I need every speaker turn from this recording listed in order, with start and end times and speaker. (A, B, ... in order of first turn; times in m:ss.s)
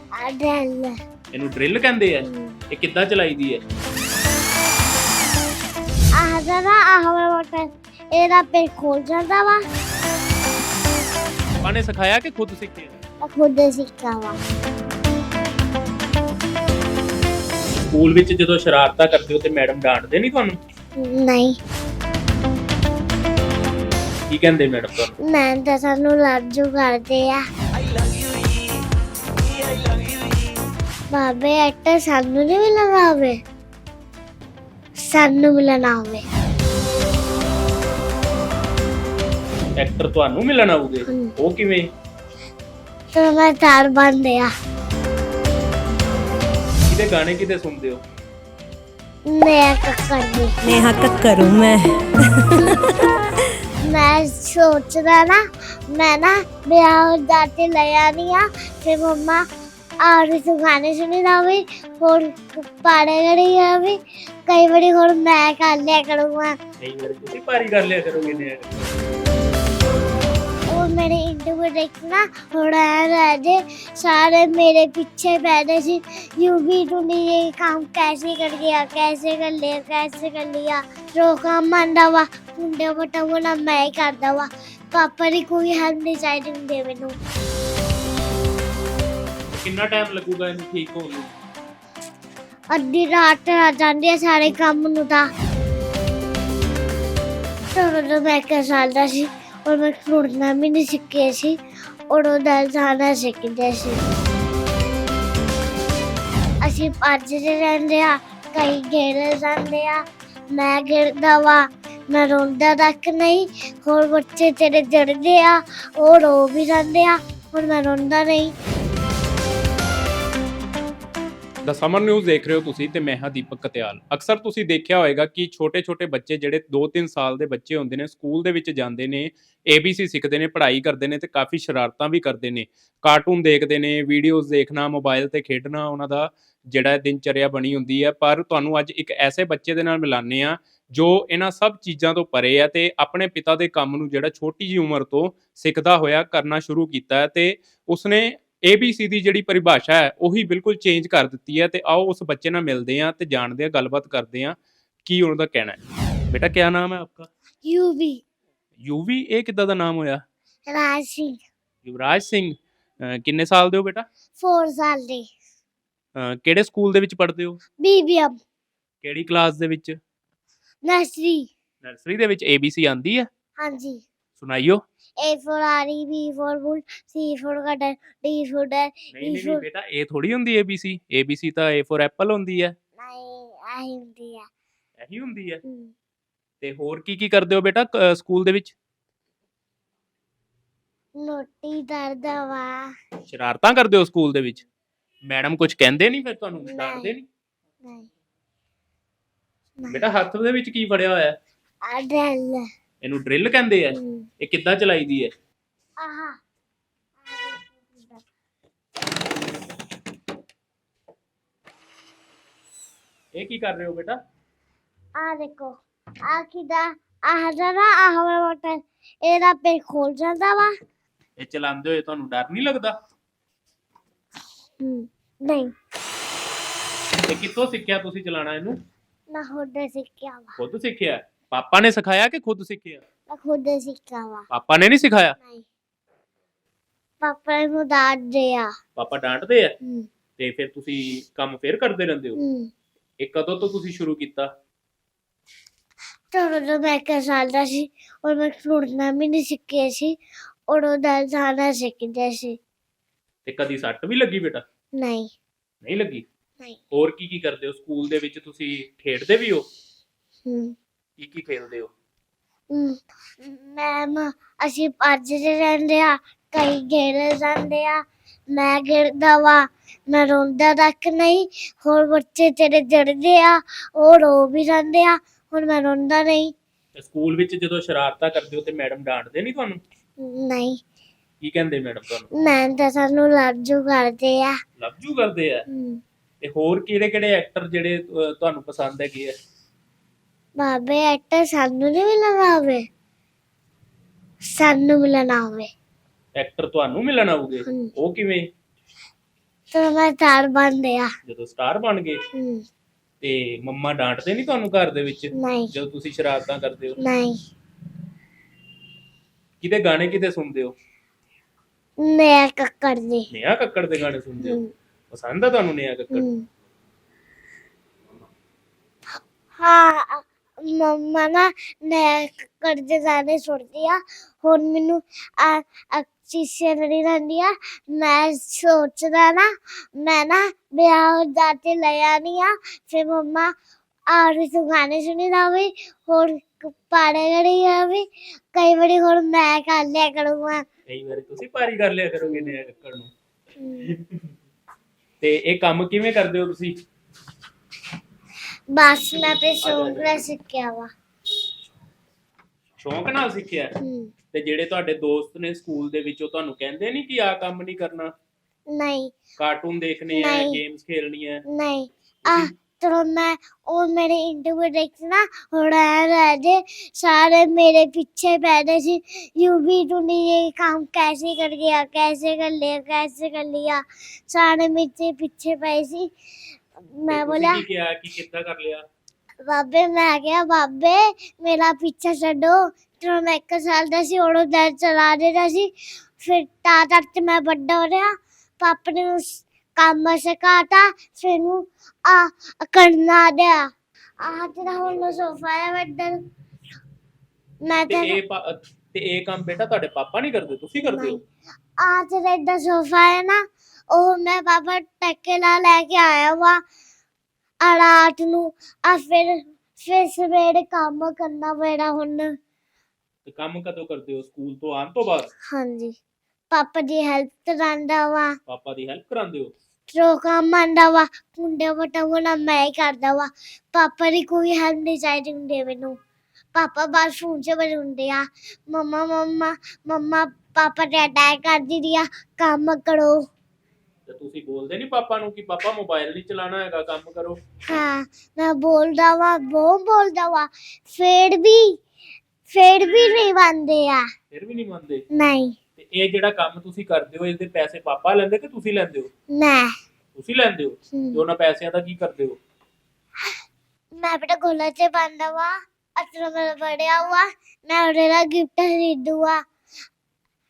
0:00.2-0:00.9 A
0:01.3-0:03.6 B
0:02.2-0:02.6 A
0:06.2-0:09.6 A
0:11.6-0:13.0 B
0:13.2-0:14.4 A
0:17.9-0:20.6 B
0:21.0-0:21.6 A
0:24.3-0:25.1 B
0:25.3-0:27.4 A
0:31.1-0:33.4 A
0:35.1-0:36.2 A
0:39.8-0:41.9 B
0:41.1-0:41.3 A
0:43.1-0:44.5 A
0:46.9-0:48.0 B
0:49.3-0:50.6 A
0:53.8-0:59.4 A
1:00.0-1:06.6 A
1:06.8-1:08.9 B
1:10.7-1:27.2 A
1:29.5-1:31.3 B
1:32.7-1:35.2 A
1:37.7-1:41.6 A
1:42.1-1:44.0 A
1:46.6-1:58.5 A
2:01.6-2:35.8 B
2:36.3-2:37.3 B
2:37.6-2:38.2 A
2:38.8-2:40.2 B
2:40.7-2:41.4 A
2:41.8-2:44.1 B
2:44.4-2:45.3 A
2:46.2-2:47.6 B
2:47.8-2:48.4 A
2:49.0-2:50.0 B
2:50.8-2:51.5 A
2:51.8-2:53.3 B
2:53.6-2:54.0 A
2:54.4-2:54.8 B
2:55.2-2:59.6 A
2:59.1-3:02.7 B
3:03.0-3:04.5 A
3:05.0-3:05.6 B
3:05.6-3:05.9 A
3:06.6-3:08.8 B
3:11.2-3:12.9 A
3:13.3-3:14.7 B
3:15.3-3:17.3 B
3:16.6-3:17.1 A
3:17.8-3:18.1 A
3:19.9-3:21.4 B
3:21.8-3:22.7 A
3:23.0-3:25.3 B
3:23.9-3:24.3 A
3:26.0-3:26.4 A
3:27.2-3:28.2 A
3:33.4-3:34.2 B
3:35.2-3:40.7 A
3:41.4-3:43.0 B
3:44.8-3:45.7 A
3:47.3-3:48.8 B
3:49.3-3:50.6 A
3:50.6-3:53.0 B
3:53.3-3:54.5 A
3:54.5-3:55.4 B
3:55.4-3:55.7 A
3:57.2-3:58.7 A
3:59.0-3:59.7 B
3:59.8-4:00.1 A
4:00.4-4:02.4 B
4:02.4-4:02.7 A
4:03.2-4:04.5 B
4:06.3-4:10.2 A
4:10.7-4:12.6 A
4:13.4-4:14.6 B
4:15.0-4:15.3 A
4:15.8-4:16.2 B
4:16.9-4:19.7 B
4:20.5-4:20.8 A
4:21.2-4:21.9 B
4:22.7-4:36.5 A
4:37.0-4:39.8 B
4:40.2-4:40.8 A
4:41.4-4:42.3 B
4:42.4-4:44.5 A
4:44.8-4:45.6 B
4:45.7-4:46.0 A
4:46.4-4:49.3 B
4:50.6-4:52.8 A
4:54.6-4:55.7 A
4:56.4-4:58.5 B
4:59.7-5:01.1 A
5:01.3-5:02.2 B
5:02.3-5:02.6 A
5:03.2-5:07.0 B
5:05.4-5:05.7 A
5:07.0-5:07.4 A
5:09.6-5:10.7 B
5:12.0-5:13.3 A
5:13.3-5:16.3 B
5:14.4-5:14.7 A
5:16.1-5:16.4 A
5:19.6-5:33.5 A
5:34.1-5:40.6 A
5:40.9-5:43.1 B
5:42.2-5:42.6 A
5:43.6-5:44.0 A
5:45.2-5:46.7 B
5:48.7-5:50.9 A
5:49.6-5:50.2 B
5:52.8-5:53.7 B
5:53.8-5:54.1 A
5:54.3-5:58.1 B
5:58.7-5:59.1 A
5:59.4-6:01.4 B
6:00.2-6:00.6 A
6:01.5-6:16.1 A
6:02.3-6:02.5 B
6:16.8-6:17.6 A
6:17.1-6:18.8 B
6:19.4-6:33.7 A
6:34.2-6:36.2 A
6:37.6-6:38.2 A
6:37.9-6:41.2 B
6:40.8-6:41.2 A
6:41.8-6:43.4 A
6:43.9-6:46.6 A
6:47.6-6:52.4 A
6:53.2-6:55.3 B
6:55.5-6:56.0 A
6:56.5-6:58.4 A
6:58.5-6:59.5 B
6:59.9-7:06.0 A
7:06.5-7:13.2 A
7:14.1-7:17.4 B
7:17.7-7:21.8 A
7:22.5-7:24.1 A
7:24.3-7:25.0 B
7:25.1-7:25.6 A
7:25.8-7:29.1 B
7:29.3-7:29.7 A
7:30.2-7:32.4 B
7:30.9-7:31.2 A
7:34.0-7:39.4 A